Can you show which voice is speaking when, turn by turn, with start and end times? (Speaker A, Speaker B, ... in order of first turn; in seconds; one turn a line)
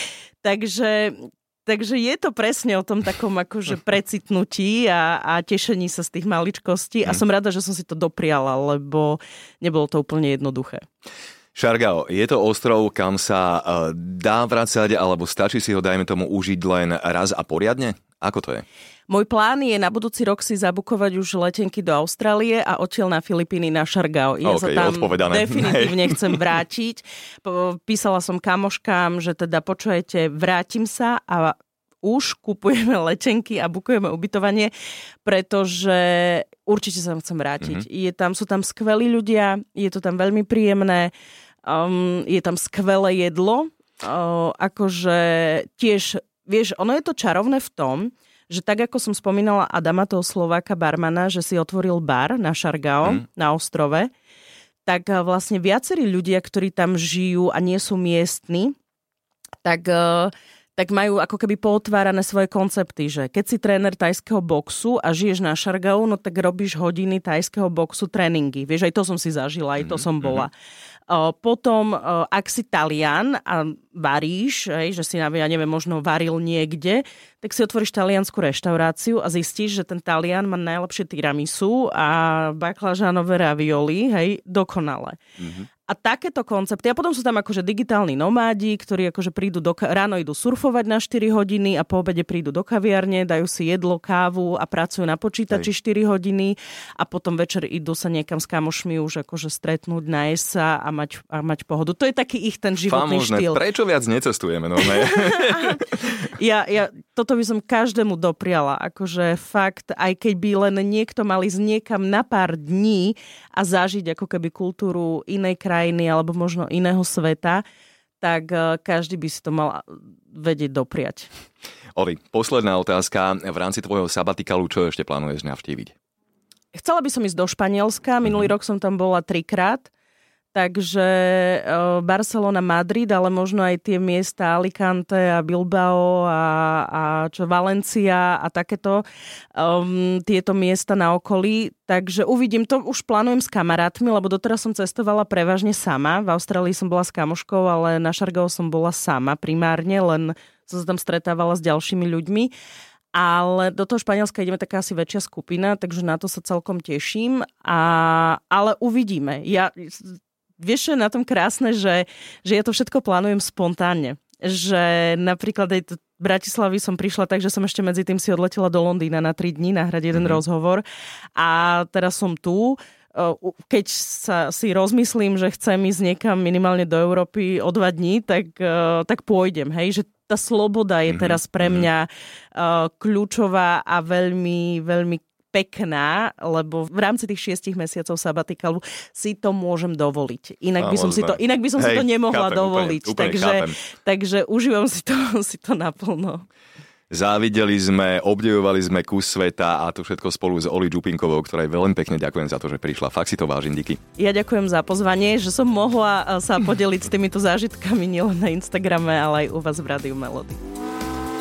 Speaker A: 0.4-10.8
Speaker B: 11.6-18.6
Speaker A: 19.1-34.7
Speaker B: 24.4-26.4
Speaker A: 35.2-41.1
Speaker A: 41.6-54.1
Speaker A: 54.9-58.7
Speaker A: 59.6-70.5
Speaker B: 69.8-70.5
Speaker A: 71.1-85.2
Speaker B: 85.4-85.7
Speaker A: 85.8-103.6
Speaker B: 102.9-106.1
Speaker A: 104.8-117.6
Speaker A: 118.2-121.3
Speaker B: 122.0-125.9
Speaker A: 126.7-129.9
Speaker A: 130.5-139.0
Speaker A: 139.5-152.5
Speaker A: 153.1-170.8
Speaker B: 170.1-170.4
Speaker A: 171.3-196.4
Speaker B: 181.1-181.8
Speaker B: 190.8-193.8
Speaker B: 197.1-204.0
Speaker A: 204.2-210.6